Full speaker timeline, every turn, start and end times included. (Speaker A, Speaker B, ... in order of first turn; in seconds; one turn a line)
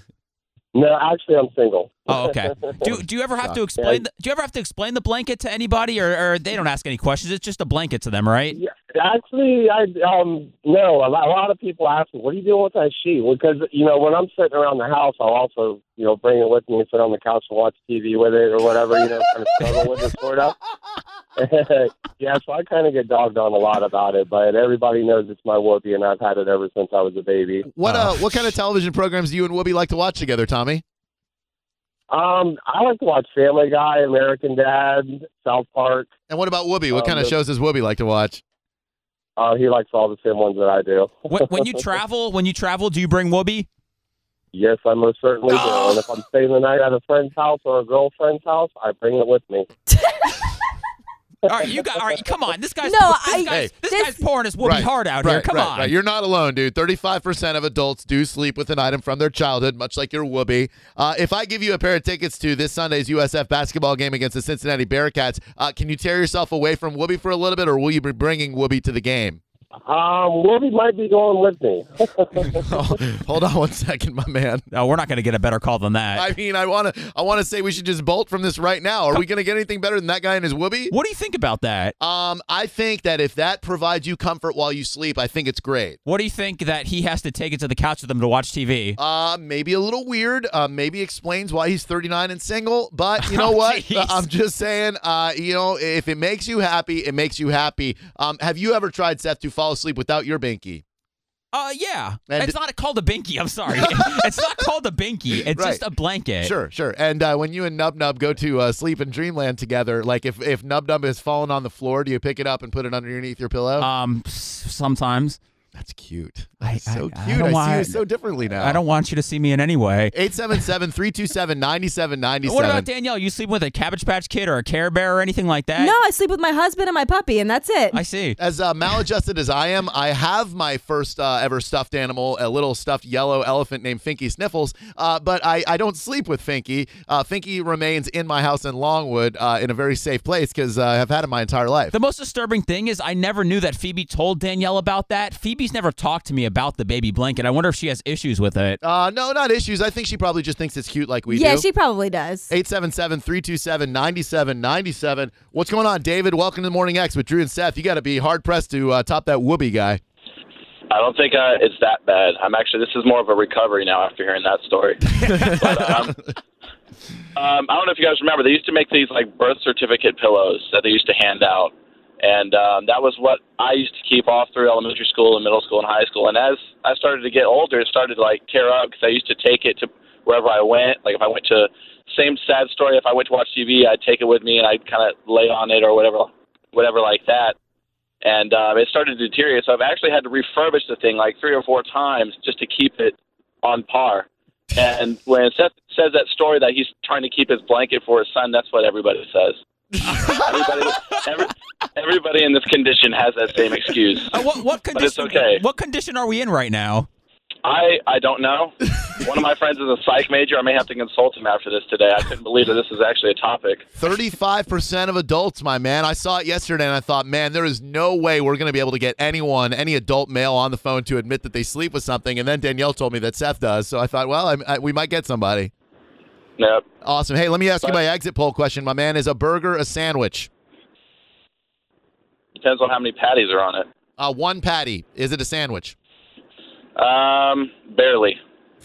Speaker A: 0.7-3.0
Speaker B: 2.1-8.6
Speaker A: 8.5-20.6
Speaker A: 21.4-27.7
Speaker C: 27.7-30.8
Speaker B: 27.8-28.6
Speaker A: 32.1-36.1
Speaker C: 36.3-38.4
Speaker A: 36.9-37.4
Speaker A: 39.4-41.8
Speaker B: 41.3-43.7
Speaker A: 44.5-49.7
Speaker B: 45.5-46.2
Speaker B: 51.5-55.9
Speaker D: 52.8-54.2
Speaker C: 53.4-53.7
Speaker C: 54.6-69.4
Speaker A: 69.8-73.0
Speaker C: 72.7-74.7
Speaker B: 74.7-76.3
Speaker C: 76.2-80.9
Speaker B: 80.9-82.0
Speaker C: 82.0-86.0
Speaker B: 86.0-89.0
Speaker C: 89.0-100.8
Speaker B: 93.2-94.2
Speaker B: 101.5-106.5
Speaker C: 102.3-102.6
Speaker C: 103.8-104.2
Speaker C: 105.5-105.8
Speaker C: 106.4-113.9
Speaker B: 113.8-115.4
Speaker C: 115.8-118.8
Speaker B: 116.6-118.0
Speaker B: 118.6-120.6
Speaker C: 120.1-122.9
Speaker B: 122.5-126.0
Speaker D: 125.8-128.0
Speaker B: 127.9-128.4
Speaker C: 128.4-141.9
Speaker B: 141.9-148.8
Speaker C: 148.8-151.7
Speaker D: 151.3-152.5
Speaker C: 152.5-160.0
Speaker E: 160.9-166.2
Speaker E: 167.4-187.6
Speaker E: 188.2-199.6
Speaker B: 200.1-201.2
Speaker E: 200.2-204.3
Speaker B: 204.2-207.1
Speaker E: 204.9-205.6
Speaker E: 207.6-213.8
Speaker C: 214.0-225.7
Speaker E: 226.6-226.8
Speaker C: 227.0-230.5
Speaker E: 232.6-233.9
Speaker C: 234.2-235.9
Speaker E: 237.0-238.4